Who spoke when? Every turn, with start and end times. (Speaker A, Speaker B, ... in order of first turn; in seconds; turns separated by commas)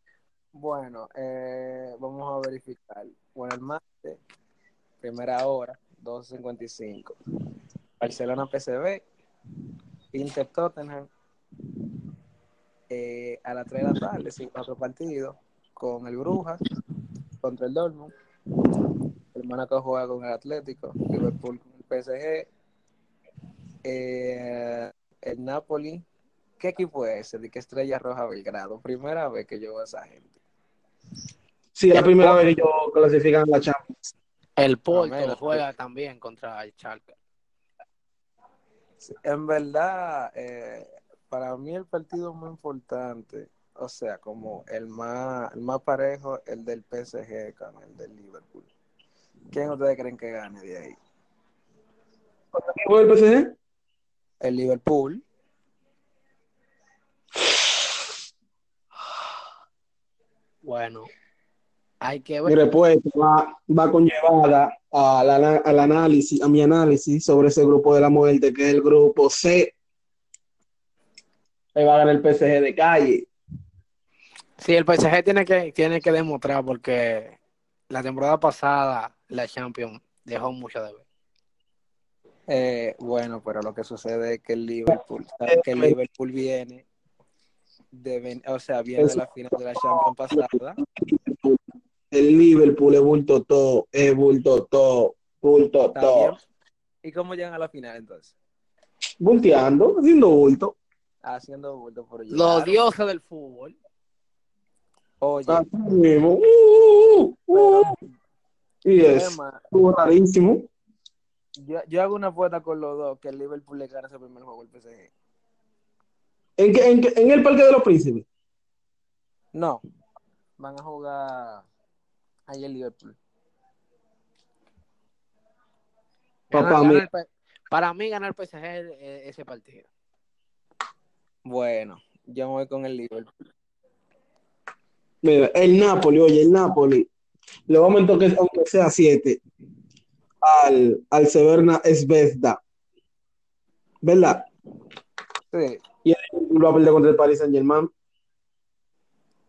Speaker A: 0.5-4.2, Speaker A: 5.0-7.1, Speaker A: 8.0-9.0, Speaker A: 10.1-11.1, Speaker A: 12.9-16.6, Speaker A: 17.4-18.1, Speaker A: 19.3-22.5, Speaker A: 23.9-26.1, Speaker A: 26.6-30.3, Speaker B: 31.8-34.0, Speaker C: 34.6-37.1, Speaker A: 34.9-35.6, Speaker A: 39.0-48.7, Speaker A: 49.5-51.0, Speaker B: 52.5-53.5, Speaker A: 54.4-55.2, Speaker C: 60.6-61.1, Speaker C: 62.0-62.5, Speaker B: 62.5-69.8, Speaker B: 71.8-73.3, Speaker C: 74.6-77.4, Speaker C: 77.9-81.0, Speaker A: 82.5-86.8, Speaker B: 84.9-86.0, Speaker A: 87.9-90.8, Speaker B: 89.7-91.6, Speaker B: 92.1-96.3, Speaker A: 96.0-96.4, Speaker A: 97.0-98.3, Speaker B: 99.2-100.8, Speaker A: 101.2-102.8, Speaker C: 102.3-103.8, Speaker A: 105.2-105.6, Speaker B: 105.5-107.9, Speaker A: 107.5-108.0, Speaker B: 108.8-110.7, Speaker A: 109.0-109.6, Speaker A: 111.6-115.1, Speaker B: 116.6-118.3, Speaker A: 119.5-119.8, Speaker A: 120.6-121.7, Speaker A: 122.5-123.2, Speaker C: 126.5-129.9, Speaker B: 126.5-127.0, Speaker A: 131.5-133.3, Speaker B: 135.2-137.1, Speaker B: 137.7-139.4, Speaker B: 140.4-142.6, Speaker B: 144.0-144.5, Speaker A: 145.5-145.8, Speaker B: 146.1-147.9